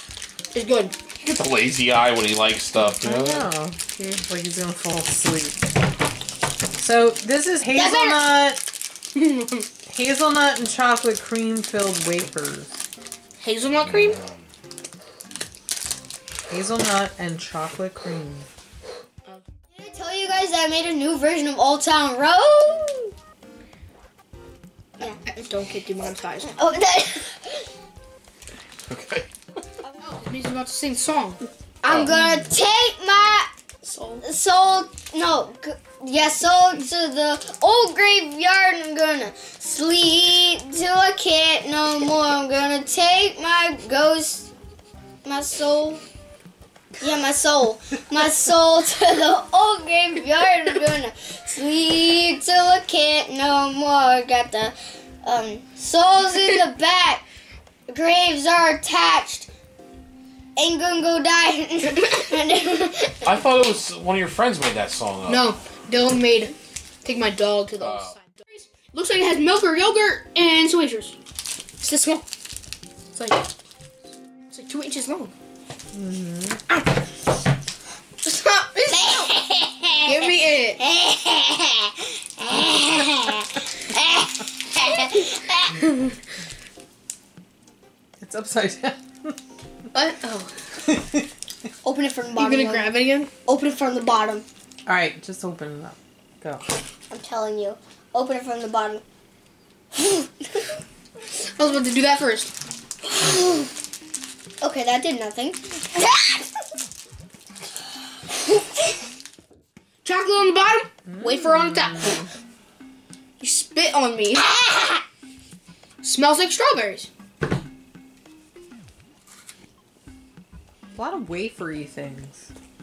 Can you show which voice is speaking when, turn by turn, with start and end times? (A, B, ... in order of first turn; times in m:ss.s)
0:00.5-0:00.9 A
0:01.2-0:03.5 B
0:03.0-0:05.6 C
0:06.8-0:08.6 C
0:07.7-0:08.4 D
0:09.2-0:09.7 A
0:09.9-0:12.8 C
0:13.4-0:14.2 A
0:13.8-0:14.4 B
0:16.5-0:18.5 C
0:19.8-0:23.1 D
0:25.2-0:26.5 A
0:26.4-0:27.6 D
0:28.9-0:29.3 B
0:30.0-0:31.4 A
0:31.8-0:33.5 D
0:31.9-0:32.1 B
0:33.8-0:34.2 A
0:34.2-0:44.5 D
0:45.2-0:46.0 D
0:47.0-0:57.2 D
0:57.9-0:59.5 D
1:00.6-1:03.3 D
1:03.3-1:05.5 B
1:05.3-1:11.2 A
1:07.8-1:08.1 B
1:11.8-1:12.2 A
1:13.1-1:13.4 A
1:14.5-1:15.3 A
1:15.9-1:16.6 C
1:18.2-1:19.3 A
1:18.9-1:25.7 D
1:20.0-1:20.8 A
1:25.8-1:26.1 A
1:28.2-1:29.4 C
1:29.9-1:30.5 A
1:30.9-1:31.2 C
1:31.8-1:32.9 D
1:32.4-1:33.3 A
1:33.4-1:34.5 D
1:34.9-1:36.6 C
1:37.1-1:39.0 D
1:40.0-1:40.6 D
1:41.3-1:42.5 A
1:43.1-1:43.7 D
1:44.6-1:46.5 D
1:48.4-1:48.7 D
1:50.0-1:52.2 A
1:51.1-1:52.3 C
1:53.4-1:54.5 A
1:54.4-1:55.0 D
1:56.0-1:57.1 A
2:01.0-2:02.5 C